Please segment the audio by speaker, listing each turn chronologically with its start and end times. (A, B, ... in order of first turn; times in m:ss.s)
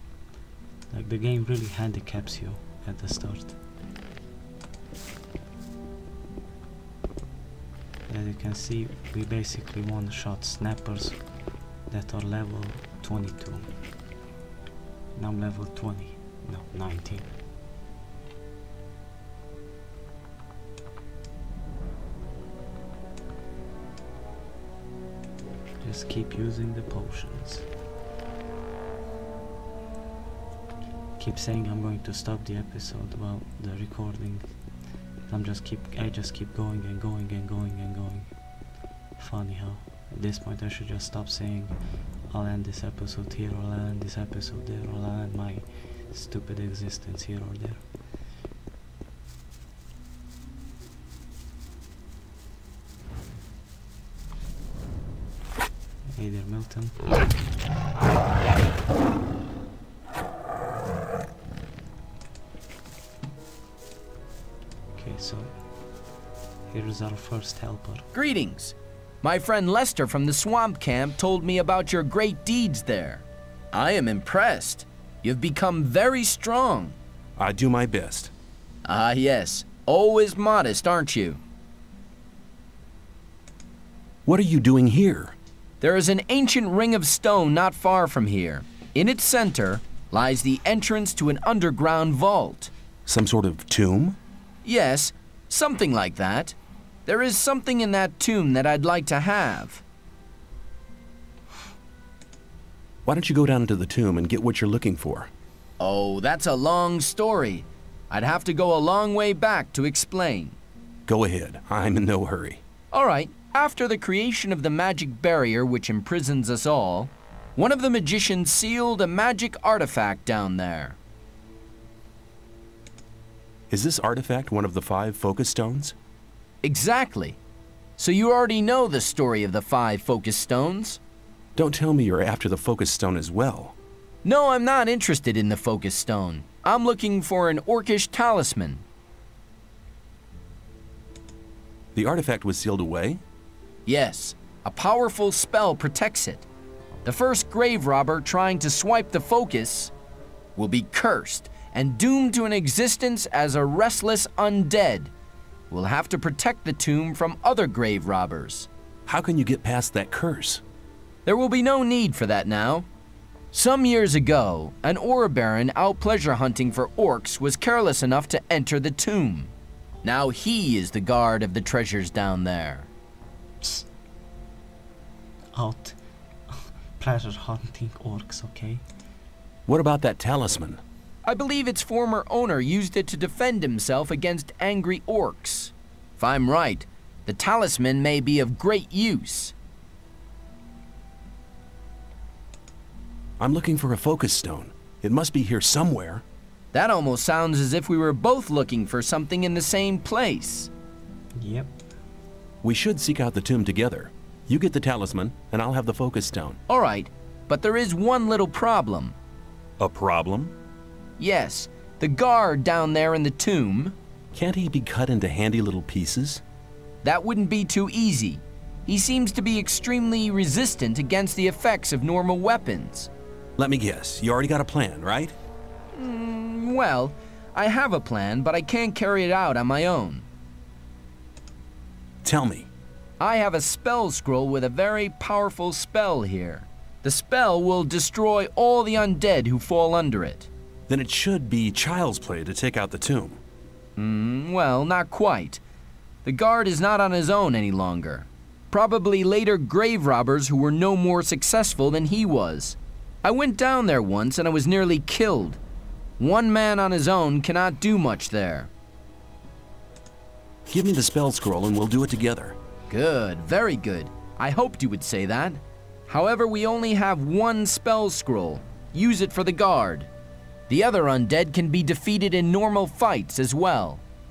0:00.9-0:03.6 A
0:08.1-0:13.7 A
0:15.2-0:17.3 A
0:25.8-0:27.7 A
0:31.2-0:34.5 A
0:35.2-0:38.4 A
0:39.2-0:47.8 A
0:56.1-0:57.1 A
1:05.0-1:05.7 A
1:06.7-1:08.1 A
1:08.1-1:17.0 B
1:17.4-1:18.3 C
1:18.8-1:21.4 B
1:24.2-1:25.4 C
1:25.8-1:32.7 B
1:33.1-1:34.2 C
1:34.6-1:36.6 B
1:37.1-1:39.8 B
1:43.0-1:45.3 C
1:45.8-1:50.6 B
1:51.1-1:52.6 C
1:52.9-2:01.0 B
2:03.7-2:06.0 C
2:06.6-2:07.4 B
2:08.0-2:11.0 B
2:11.6-2:13.8 C
2:14.2-2:18.8 B
2:22.0-2:23.2 C
2:23.9-2:26.5 B
2:27.0-2:29.9 B
2:30.6-2:35.1 B
2:35.7-2:38.7 B
2:39.1-2:40.6 C
2:41.3-2:42.9 B
2:43.5-2:49.5 B
2:50.0-2:52.9 B
2:55.5-2:58.8 A
2:59.7-3:00.8 C
3:01.2-3:09.5 B
3:13.4-3:16.2 C
3:16.7-3:20.7 B
3:21.4-3:21.8 A
3:22.6-3:26.6 C
3:26.7-3:29.2 B
3:29.8-3:30.6 C
3:31.2-3:34.0 B
3:34.3-3:36.4 C
3:37.0-3:43.1 B
3:43.6-3:45.4 C
3:45.9-3:50.3 B
3:52.2-3:52.7 C
3:53.2-4:00.5 B
4:00.9-4:03.4 C
4:04.0-4:05.6 B
4:06.2-4:15.6 B
4:16.2-4:18.7 B
4:20.7-4:22.6 C
4:22.9-4:30.1 B
4:30.7-4:34.0 B